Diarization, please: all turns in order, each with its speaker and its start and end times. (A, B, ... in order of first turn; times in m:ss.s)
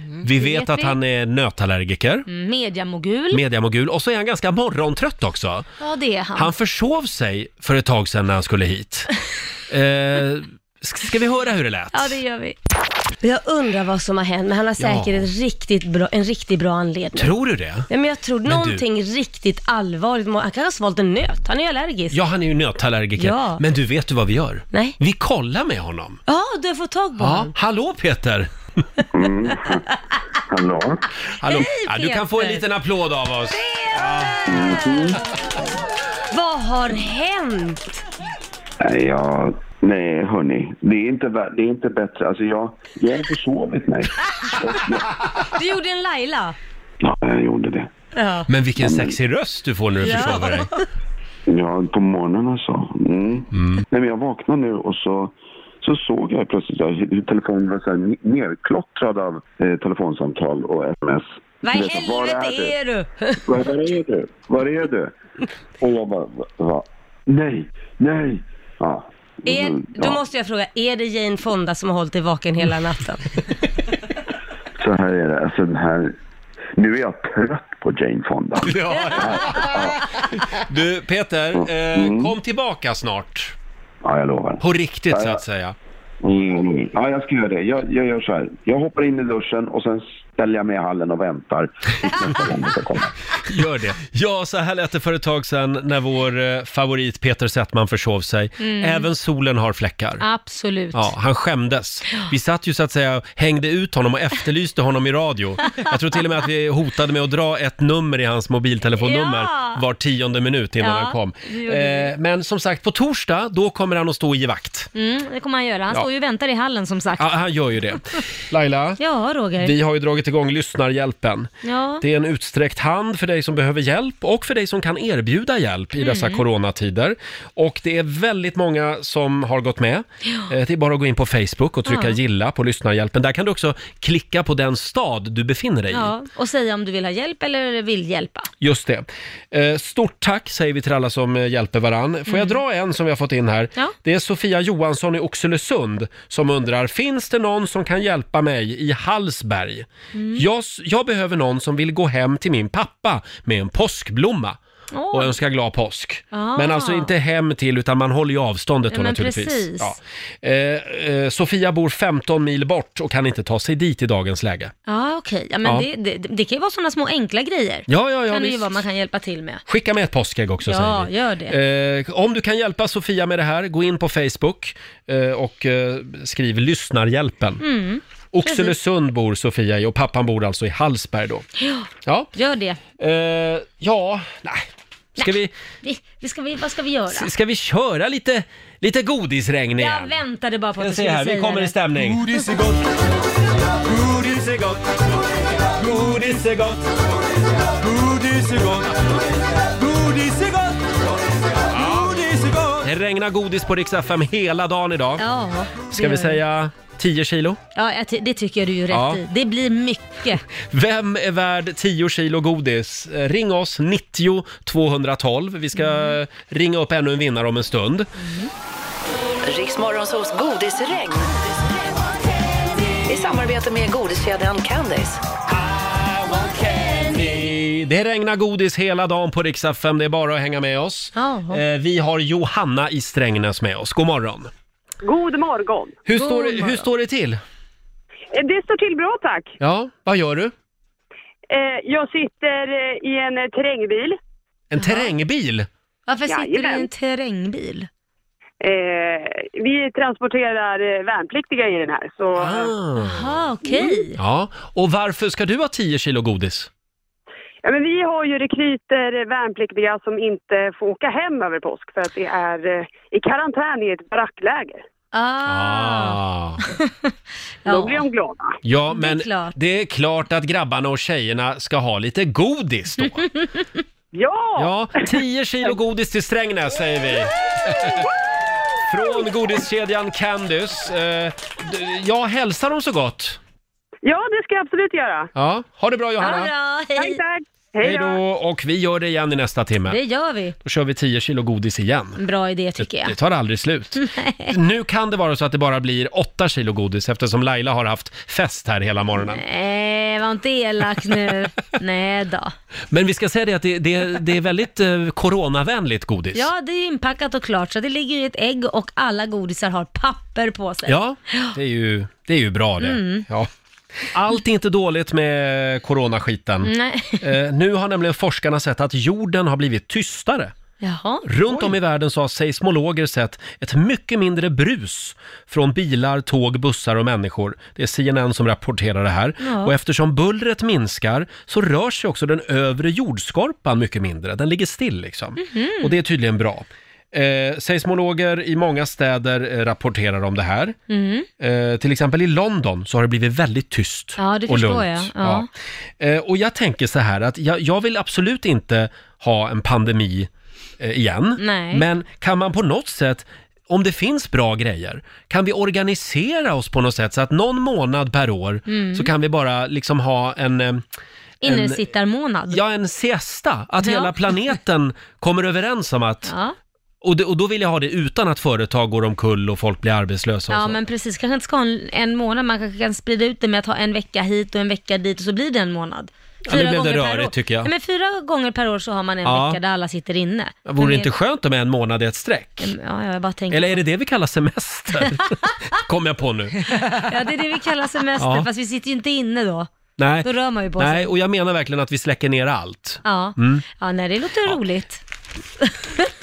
0:00.2-0:02.3 A
0:00.3-0:01.0 B
0:02.3-0:03.4 B
0:03.3-0:05.7 A
0:05.8-0:06.5 B
0:06.3-0:09.1 A
0:09.7-0:12.2 A
0:11.9-0:12.6 B
0:13.2-0:17.3 C
0:14.8-0:15.3 A
0:17.2-0:17.9 A
0:17.9-0:21.9 C
0:18.4-0:18.8 A
0:22.1-0:26.2 A
0:23.2-0:23.6 B
0:26.3-0:27.5 B
0:27.2-0:28.5 A
0:29.1-0:29.8 D
0:30.5-0:31.0 D
0:31.4-0:34.3 A
0:31.4-0:32.6 B
0:33.6-0:35.1 B
0:34.4-0:35.2 D
0:36.3-0:37.2 B
0:38.8-0:45.0 D
0:45.6-0:46.5 B
0:47.0-0:47.9 D
0:48.1-0:48.5 B
0:48.5-0:50.7 A
0:48.8-0:49.2 D
0:50.0-0:50.8 B
0:51.5-1:02.8 D
0:53.5-0:53.8 A
1:01.6-1:03.1 B
1:03.4-1:05.1 D
1:05.8-1:10.2 D
1:09.5-1:13.1 C
1:14.8-1:16.1 D
1:16.8-1:20.0 D
1:18.6-1:19.8 A
1:20.6-1:23.5 A
1:21.9-1:22.4 D
1:24.0-1:25.4 D
1:24.6-1:25.7 A
1:26.2-1:33.1 D
1:33.4-1:40.2 A
1:38.6-1:39.1 B
1:40.2-1:41.1 B
1:40.9-1:54.9 A
1:48.9-1:49.8 B
1:50.8-1:52.1 B
1:54.9-1:57.3 B
1:57.2-1:59.0 A
1:59.0-1:59.7 B
1:59.6-2:16.1 A
2:01.6-2:02.0 B
2:06.0-2:06.4 B
2:11.8-2:12.2 B
2:15.9-2:18.5 B
2:18.6-2:34.6 A
2:22.3-2:22.6 B
2:30.1-2:30.4 B
2:34.9-2:35.3 B
2:35.1-2:44.7 A
2:36.3-2:37.1 B
2:38.9-2:40.0 B
2:44.9-2:49.6 B
2:47.9-2:48.8 A
2:49.7-2:57.6 A
2:50.6-2:51.6 B
2:57.6-2:58.8 B
2:58.3-3:01.4 A
3:01.6-3:02.8 B
3:02.0-3:02.3 A
3:03.0-3:05.5 A
3:05.2-3:07.3 B
3:07.1-3:10.2 A
3:09.8-3:12.5 B
3:10.8-3:12.2 A
3:12.0-3:12.8 E
3:13.8-3:14.8 E
3:15.7-3:16.8 E
3:15.9-3:16.8 A
3:17.8-3:21.1 E
3:21.7-3:22.8 E
3:22.8-3:25.2 A
3:25.2-3:26.4 B
3:25.9-3:27.6 A
3:27.7-3:30.4 B
3:28.9-3:29.2 A
3:30.7-3:38.1 A
3:35.7-3:36.2 B
3:38.2-3:38.5 B
3:39.4-3:41.6 F
3:43.0-3:45.2 F
3:45.5-3:54.5 A
3:51.2-3:51.6 B
3:55.0-3:56.0 G
3:56.1-3:57.4 A
3:56.1-3:56.8 B
3:58.3-3:59.5 G
3:59.6-4:00.5 A
4:01.5-4:04.2 G
4:04.7-4:05.7 A
4:04.8-4:05.1 B
4:06.1-4:07.9 B
4:06.3-4:06.9 G
4:08.6-4:12.7 G
4:12.4-4:13.4 A
4:13.0-4:14.2 B
4:14.2-4:16.7 A
4:17.6-4:24.8 G
4:25.1-4:26.9 B
4:25.4-4:26.6 A
4:27.6-4:28.0 B
4:27.6-4:28.6 G
4:28.6-4:33.3 A
4:28.9-4:29.5 B
4:33.4-4:33.6 B
4:34.1-4:35.1 G
4:34.6-4:38.0 A
4:38.9-4:43.4 A
4:44.0-4:45.3 G
4:45.3-4:46.5 A
4:46.2-4:47.2 B
4:47.0-4:48.2 G
4:47.8-4:50.0 A
4:49.9-4:50.5 B
4:50.6-4:52.2 A
4:52.2-4:53.2 B
4:52.8-4:59.4 A
4:54.0-4:54.5 B
4:59.2-5:02.5 B
5:02.9-5:06.5 A
5:06.3-5:11.5 B
5:10.8-5:13.5 A
5:12.8-5:13.3 B
5:14.1-5:20.5 A
5:16.6-5:17.3 B
5:20.8-5:21.7 B
5:21.2-5:40.8 A
5:29.4-5:29.7 B
5:35.4-5:36.0 B
5:40.9-5:41.3 B
5:41.4-5:45.5 A
5:44.2-5:45.5 B
5:46.0-5:50.3 A
5:50.8-6:00.8 A
5:51.4-5:51.8 B
5:58.7-5:59.1 B
6:01.4-6:02.6 B
6:01.4-6:01.9 A
6:02.5-6:06.3 A
6:03.8-6:04.5 B
6:06.3-6:06.5 B
6:07.0-6:10.8 A
6:10.5-6:21.1 B
6:16.5-6:17.7 A
6:19.2-6:19.6 A
6:20.6-6:22.7 A
6:22.6-6:23.8 B
6:23.5-6:26.7 A
6:26.8-6:29.7 B
6:28.2-6:28.5 A
6:30.0-6:33.6 A
6:30.2-6:31.1 B
6:33.0-6:35.0 B
6:35.6-6:36.1 B